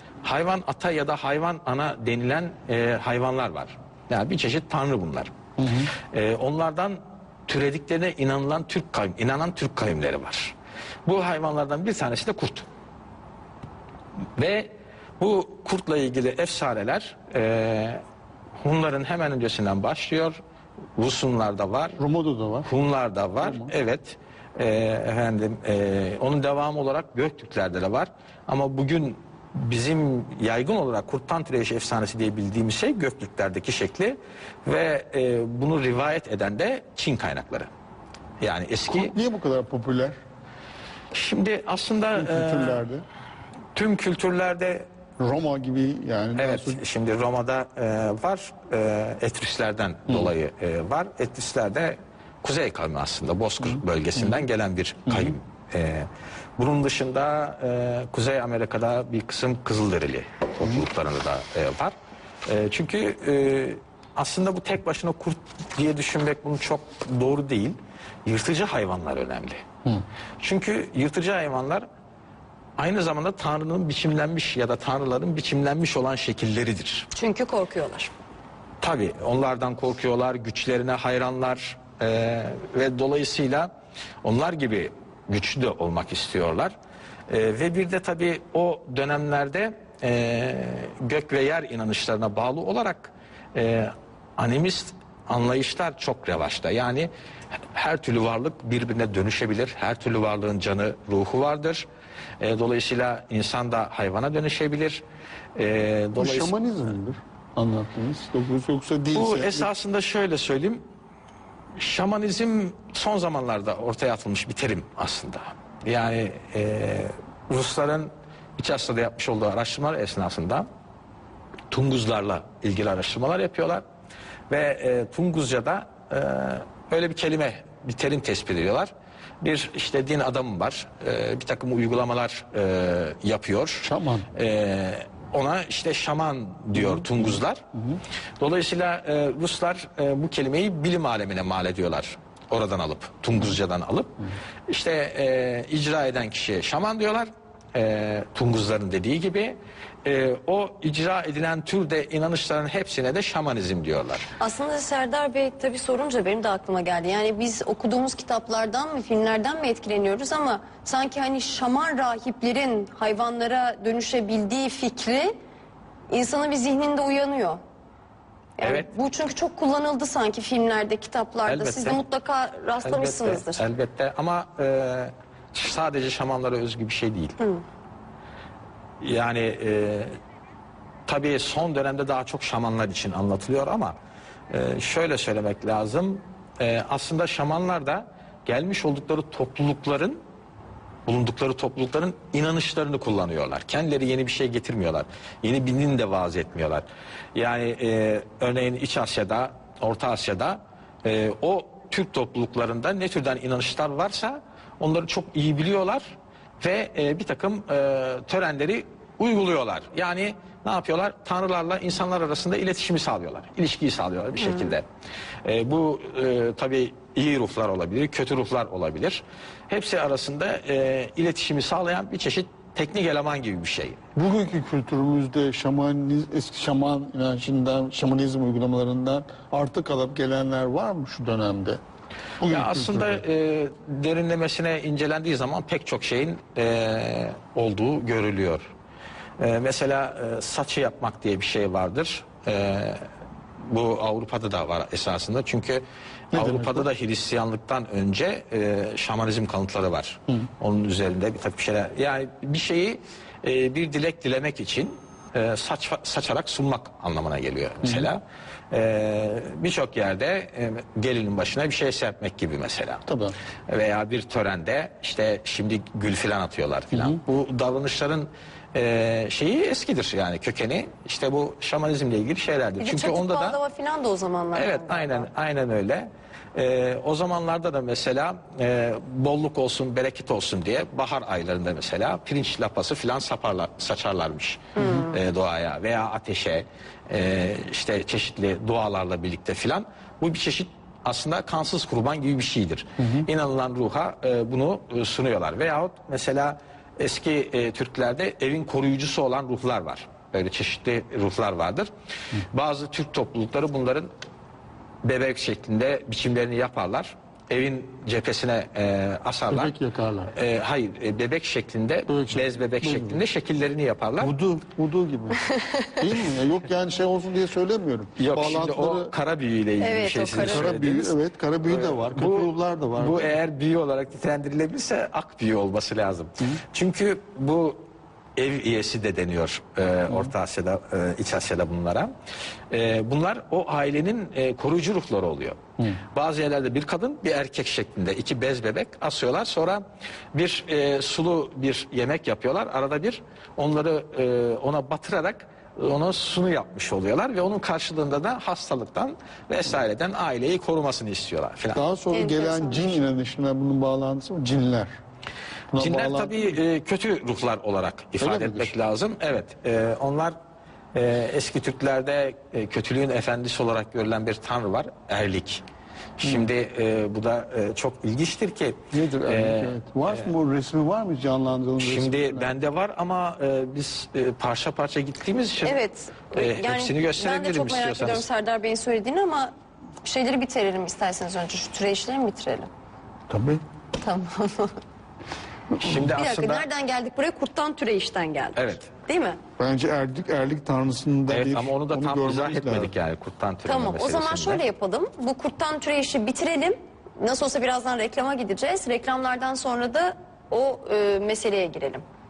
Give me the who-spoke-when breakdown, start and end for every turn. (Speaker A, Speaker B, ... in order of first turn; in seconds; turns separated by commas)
Speaker A: 0.2-5.3, Speaker B: 5.6-5.9, Speaker A: 6.0-10.6, Speaker A: 11.1-12.7, Speaker A: 14.4-18.0, Speaker A: 18.6-20.4, Speaker A: 21.0-22.0, Speaker B: 22.0-22.7, Speaker A: 22.6-37.7, Speaker B: 23.4-23.7, Speaker A: 38.4-39.1, Speaker B: 38.9-40.2, Speaker A: 41.1-42.8, Speaker B: 42.1-43.0, Speaker A: 43.8-44.9, Speaker B: 45.2-46.8, Speaker A: 46.4-61.9, Speaker B: 53.6-54.4, Speaker B: 55.1-55.3, Speaker A: 62.5-69.7, Speaker A: 70.4-71.9, Speaker A: 72.8-77.1, Speaker C: 77.1-78.1, Speaker A: 78.8-83.7, Speaker A: 84.2-86.7, Speaker A: 87.3-97.1, Speaker A: 97.7-101.9, Speaker A: 102.4-105.0, Speaker A: 105.5-106.6, Speaker B: 106.2-109.7, Speaker A: 109.1-110.8, Speaker A: 111.8-120.7, Speaker A: 121.7-123.8, Speaker A: 124.5-128.9, Speaker A: 129.4-137.6, Speaker B: 133.8-134.3, Speaker B: 136.8-138.0, Speaker A: 138.4-154.3, Speaker C: 154.4-165.3, Speaker C: 166.1-167.6, Speaker C: 168.6-173.6, Speaker A: 168.6-168.9, Speaker A: 171.5-172.0, Speaker A: 172.8-177.4, Speaker A: 179.0-180.1, Speaker A: 181.1-183.9, Speaker A: 184.5-190.2, Speaker A: 191.1-214.8, Speaker A: 215.4-224.0, Speaker B: 224.2-231.8, Speaker B: 232.4-233.2, Speaker A: 232.4-238.7, Speaker A: 239.4-243.1, Speaker A: 243.7-263.0, Speaker B: 246.3-246.9, Speaker B: 263.1-263.4, Speaker A: 263.7-273.6, Speaker C: 272.8-275.3, Speaker A: 274.5-301.9, Speaker C: 284.8-285.1, Speaker B: 293.0-293.3, Speaker A: 302.5-304.1, Speaker A: 305.0-309.8, Speaker B: 309.5-310.3, Speaker A: 310.3-314.3, Speaker B: 312.1-313.2, Speaker B: 314.2-319.1, Speaker C: 315.5-316.1, Speaker A: 318.2-327.8, Speaker C: 319.8-320.7, Speaker B: 320.4-323.3, Speaker A: 328.4-332.1, Speaker A: 332.7-351.8, Speaker B: 351.7-354.9, Speaker C: 352.1-353.0, Speaker B: 355.7-356.6, Speaker A: 355.8-360.4, Speaker B: 358.2-358.7, Speaker A: 360.9-365.6, Speaker A: 366.2-370.3, Speaker B: 368.9-372.5, Speaker A: 371.8-375.8, Speaker C: 375.6-379.5, Speaker A: 376.3-378.3, Speaker C: 380.0-382.7, Speaker B: 383.3-383.6, Speaker C: 384.0-384.8, Speaker A: 385.8-386.7, Speaker C: 386.1-389.4, Speaker A: 388.6-388.9, Speaker B: 389.6-392.9, Speaker A: 391.3-394.6, Speaker C: 393.7-402.0